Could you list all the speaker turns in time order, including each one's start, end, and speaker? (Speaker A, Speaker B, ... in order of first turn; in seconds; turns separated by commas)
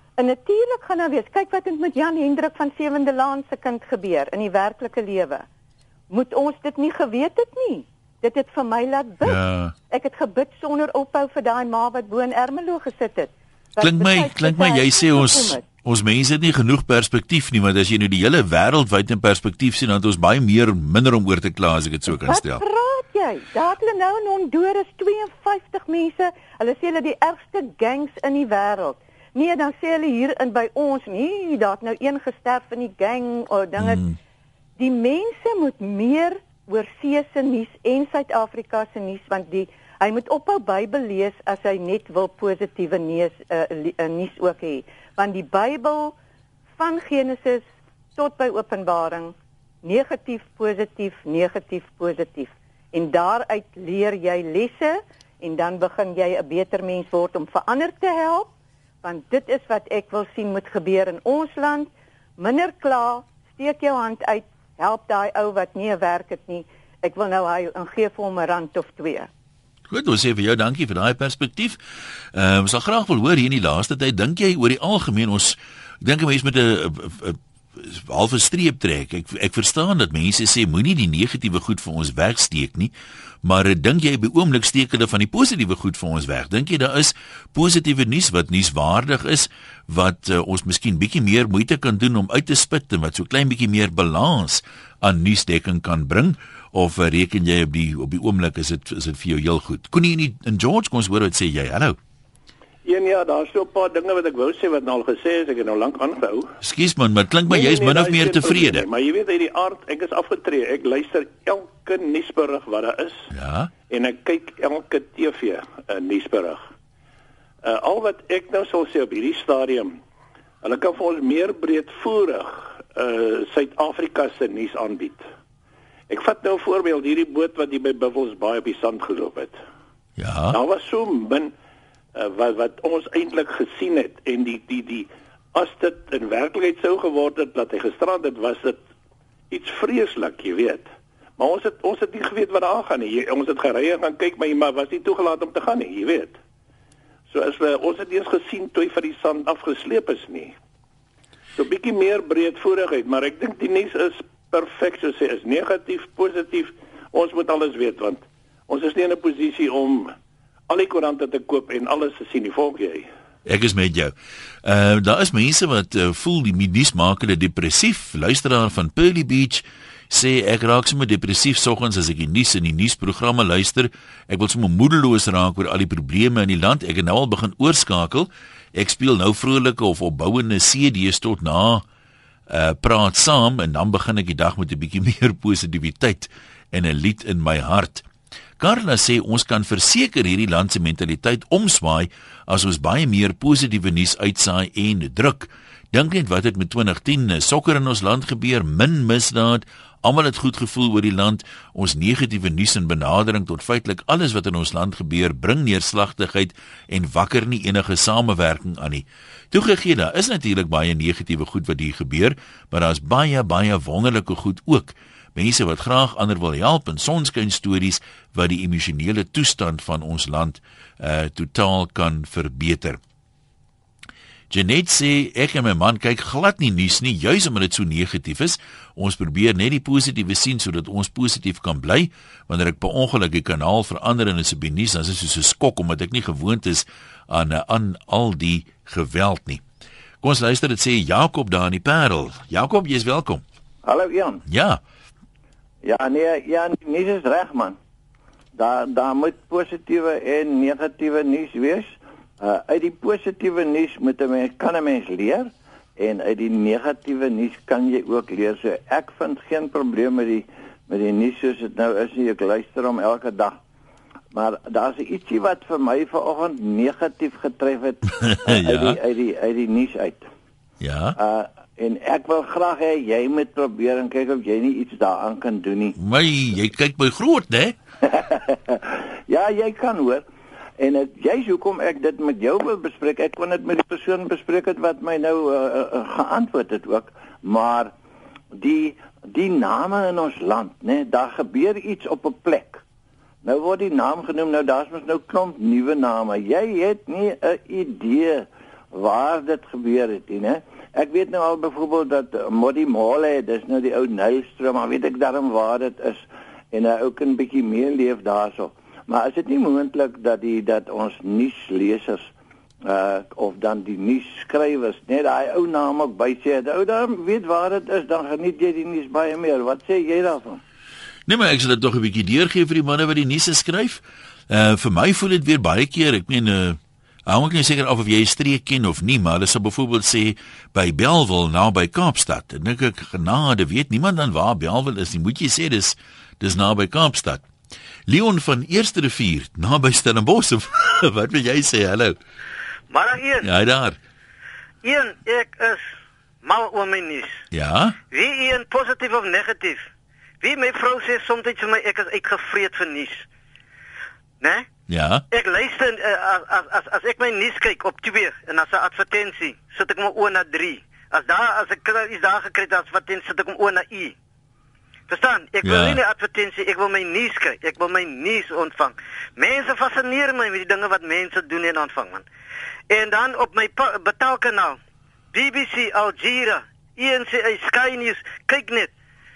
Speaker A: 0.2-5.4, Speaker A: 6.1-15.6, Speaker B: 9.2-9.7, Speaker B: 13.8-22.6, Speaker A: 22.1-34.1, Speaker B: 33.8-34.1, Speaker A: 34.8-46.1, Speaker A: 46.8-47.6, Speaker A: 48.2-58.5, Speaker A: 59.0-69.3, Speaker B: 69.9-71.8, Speaker B: 72.3-82.9, Speaker B: 83.4-102.0, Speaker C: 102.8-106.5, Speaker B: 106.6-108.9, Speaker C: 107.5-113.3, Speaker B: 113.3-113.7, Speaker C: 113.9-116.7, Speaker C: 117.6-120.0, Speaker C: 120.6-125.2, Speaker C: 126.1-129.6, Speaker B: 130.2-130.6, Speaker C: 130.5-131.5, Speaker C: 132.2-138.8, Speaker C: 139.5-140.9, Speaker C: 141.4-146.4, Speaker C: 147.3-150.6, Speaker C: 151.6-160.2, Speaker C: 160.7-163.1, Speaker B: 163.5-164.1, Speaker B: 164.6-181.8, Speaker B: 182.5-188.1, Speaker B: 188.6-223.0, Speaker B: 224.5-239.6, Speaker B: 240.2-243.4, Speaker D: 243.8-244.4, Speaker B: 244.5-244.8, Speaker D: 245.8-247.8, Speaker D: 248.6-263.6, Speaker D: 264.3-270.3, Speaker B: 268.2-269.0, Speaker B: 270.8-271.2, Speaker D: 271.2-276.0, Speaker B: 275.9-277.8, Speaker D: 278.1-280.2, Speaker D: 280.8-287.9, Speaker D: 288.6-292.8, Speaker D: 293.4-312.3, Speaker D: 312.9-320.6, Speaker B: 321.3-337.5, Speaker B: 338.1-342.2, Speaker E: 342.9-343.5, Speaker B: 343.4-344.0, Speaker E: 344.8-345.9, Speaker E: 346.4-347.4, Speaker B: 347.5-348.0, Speaker E: 348.1-349.9, Speaker E: 350.4-353.3, Speaker E: 354.4-354.7, Speaker B: 354.9-355.2, Speaker E: 355.3-364.1, Speaker E: 365.1-372.3, Speaker B: 365.6-366.0, Speaker E: 372.9-374.8, Speaker E: 375.3-378.9